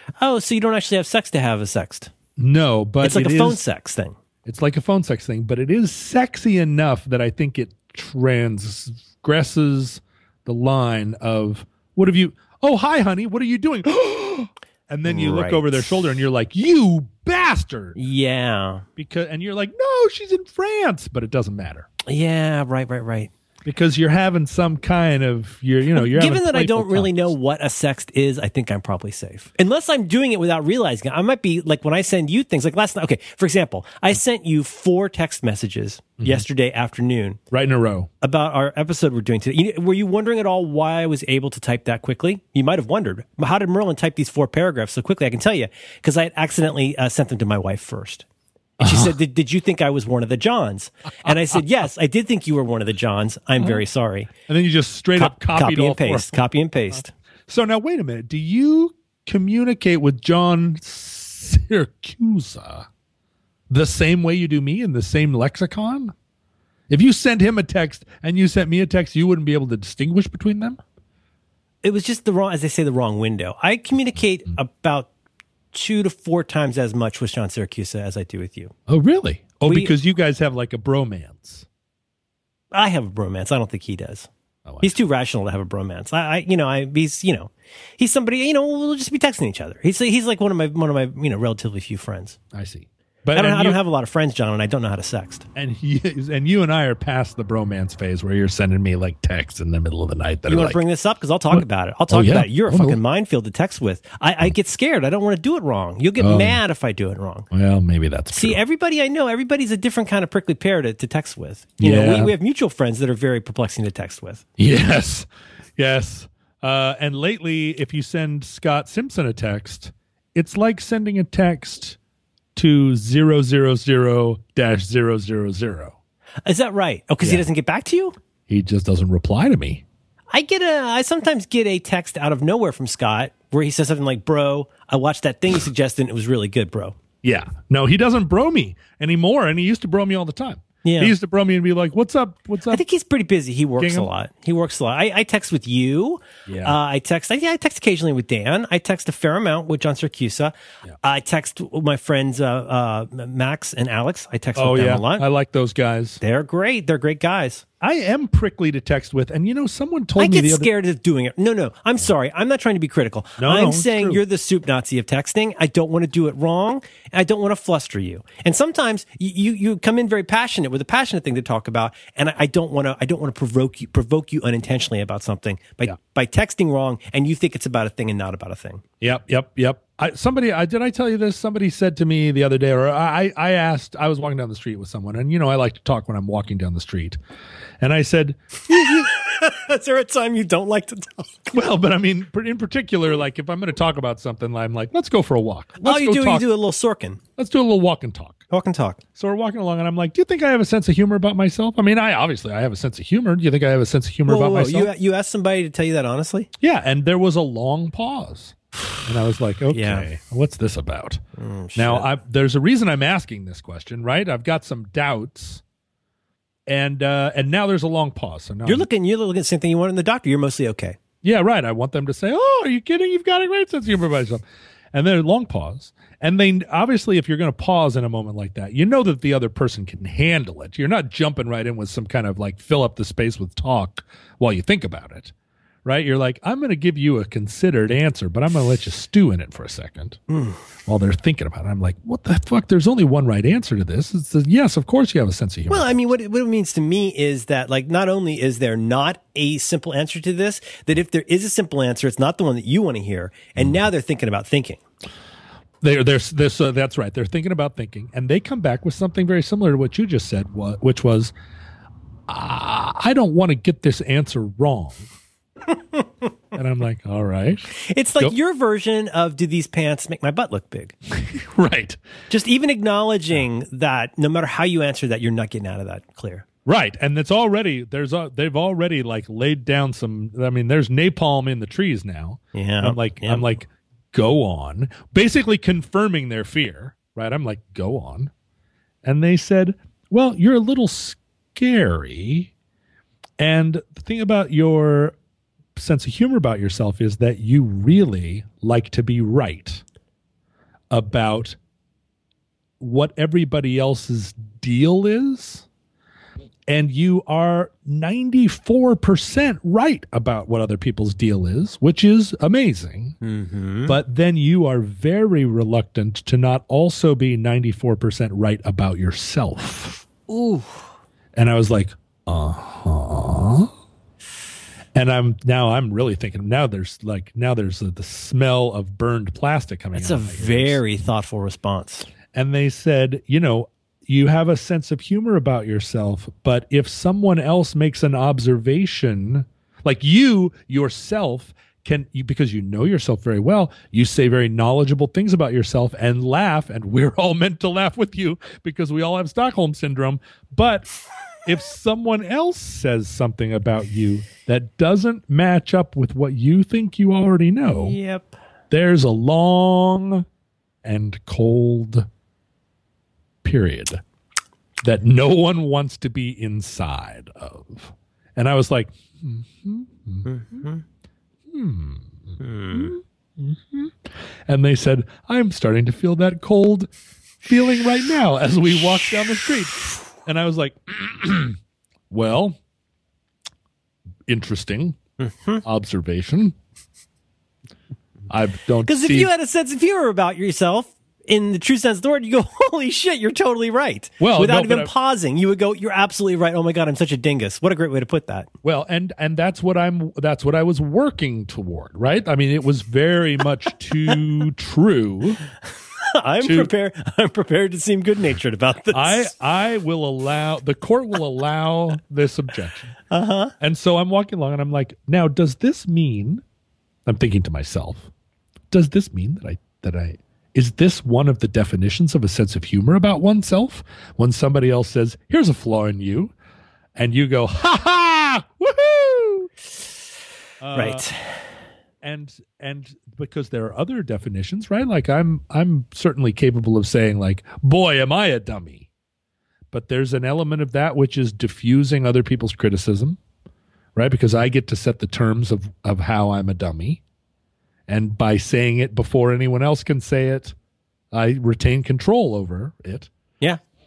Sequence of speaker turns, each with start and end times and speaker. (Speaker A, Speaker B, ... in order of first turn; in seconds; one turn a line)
Speaker A: 0.2-2.1
Speaker B: 2.4-3.6
Speaker A: 3.0-4.2
Speaker B: 4.5-18.0
Speaker A: 15.1-15.9
Speaker A: 18.0-18.9
Speaker B: 19.0-21.9
Speaker A: 22.1-23.3
Speaker B: 23.6-27.3
Speaker A: 25.9-37.4
Speaker B: 36.2-36.5
Speaker B: 37.5-38.1
Speaker A: 38.2-48.2
Speaker B: 48.8-49.1
Speaker A: 48.8-54.3
Speaker B: 54.5-56.4
Speaker A: 55.2-57.1
Speaker B: 57.5-62.9
Speaker B: 63.7-66.1
Speaker B: 66.9-70.8
Speaker A: 71.8-75.1
Speaker A: 75.7-78.7
Speaker B: 78.9-81.7
Speaker A: 79.7-79.9
Speaker A: 82.7-84.3
Speaker B: 84.7-85.0
Speaker A: 84.8-92.4
Speaker B: 92.5-93.8
Speaker A: 93.3-95.5
Speaker B: 95.5-100.8
Speaker A: 100.5-107.5
Speaker B: 101.5-103.0
Speaker B: 106.2-106.6
Speaker B: 107.5-108.6
Speaker A: 108.3-114.4
Speaker B: 111.8-112.3
Speaker B: 114.6-122.0
Speaker B: 122.5-126.0
Speaker A: 126.5-128.2
Speaker B: 128.5-129.8
Speaker A: 130.3-136.9
Speaker B: 137.2-142.8
Speaker A: 140.8-141.1
Speaker A: 142.7-155.3
Speaker B: 143.8-144.1
Speaker B: 146.5-146.8
Speaker B: 154.6-156.2
Speaker A: 156.2-157.6
Speaker B: 157.8-160.7
Speaker A: 160.2-178.8
Speaker B: 163.4-164.2
Speaker B: 179.0-187.2
Speaker B: 187.8-189.1
Speaker A: 188.9-191.5
Speaker B: 191.5-196.5
Speaker A: 195.8-197.2
Speaker B: 197.4-198.4
Speaker A: 198.5-199.0
Speaker B: 199.2-204.9
Speaker A: 204.3-206.5
Speaker B: 206.6-211.2
Speaker A: 209.7-210.1
Speaker A: 211.4-212.1
Speaker B: 211.8-215.6
Speaker B: 216.7-218.9
Speaker A: 218.7-221.0
Speaker B: 221.2-224.4
Speaker B: 224.9-235.3
Speaker B: 235.8-240.2
Speaker A: 240.3-240.6
Speaker B: 240.8-246.0
Speaker A: 245.7-254.8
Speaker B: 255.8-261.3
Speaker B: 262.3-265.1
Speaker B: 266.5-267.7
Speaker A: 267.7-270.9
Speaker B: 271.1-272.0
Speaker A: 272.3-276.5
Speaker B: 276.7-288.3
Speaker A: 282.5-283.5
Speaker B: 289.0-292.5
Speaker B: 293.4-295.1
Speaker B: 295.8-299.8
Speaker B: 300.9-301.6
Speaker B: 302.8-305.7
Speaker B: 306.7-313.2
Speaker A: 313.2-314.0
Speaker B: 313.9-320.0
Speaker A: 320.3-320.9
Speaker B: 321.4-323.7
Speaker B: 324.9-330.8
Speaker A: 329.9-332.1
Speaker B: 332.3-350.9
Speaker B: 351.4-358.0
Speaker A: 357.7-358.4
Speaker B: 358.7-360.3
Speaker B: 360.8-362.1
Speaker B: 363.4-364.0
Speaker B: 364.8-370.3
Speaker A: 370.2-370.8
Speaker B: 371.5-376.9
Speaker A: 372.4-372.9
Speaker B: 377.4-381.6
Speaker B: 382.1-382.6
Speaker B: 384.3-385.0
Speaker A: 385.2-385.6
Speaker B: 385.6-386.6
Speaker B: 388.3-389.3
Speaker A: 388.9-398.5
Speaker B: 394.2-394.9
Speaker B: 398.6-405.4
Speaker A: 406.0-409.3
Speaker B: 406.4-406.7
Speaker B: 408.9-413.0
Speaker A: 413.1-413.6
Speaker B: 413.6-416.4
Speaker B: 417.1-418.1
Speaker B: 418.7-426.3
Speaker B: 427.0-429.5
Speaker B: 430.6-431.1
Speaker A: 430.8-431.4
Speaker B: 432.0-438.9
Speaker B: 439.7-443.2
Speaker B: 444.0-447.0
Speaker B: 447.9-450.6
Speaker B: 451.1-453.1